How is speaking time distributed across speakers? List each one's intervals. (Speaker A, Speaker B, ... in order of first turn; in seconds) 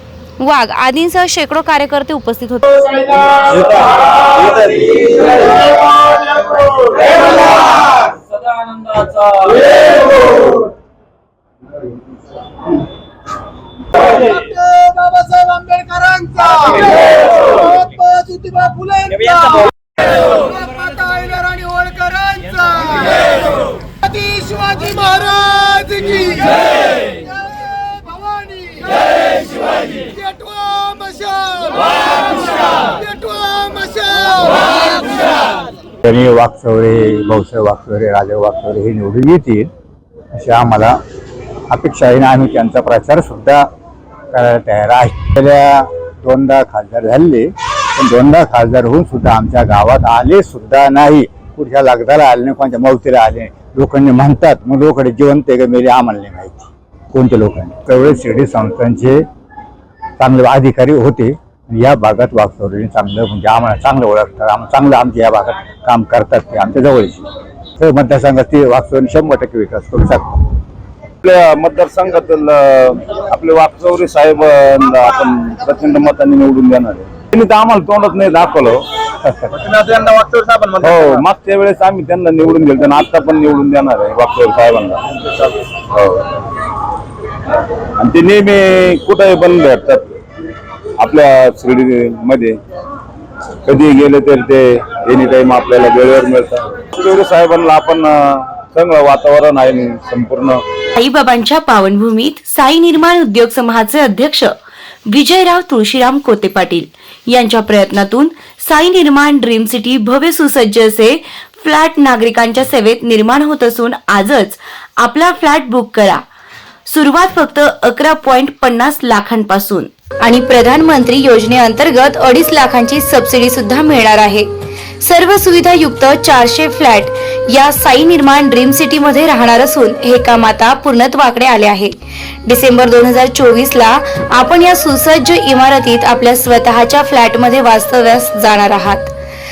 Speaker A: 0.4-2.9, 101.0-104.5, 105.1-116.2, 116.9-124.5, 125.0-139.1
Speaker B: 3.4-5.2, 9.0-9.5, 71.2-78.8, 80.8-85.1, 85.9-86.3, 88.0-90.1, 91.0-92.6, 93.7-100.6
Speaker C: 14.0-35.6, 79.6-81.0
Speaker D: 36.0-39.7, 40.4-41.0, 41.7-43.7, 44.3-59.2, 60.2-67.2, 67.8-70.5, 79.2-79.5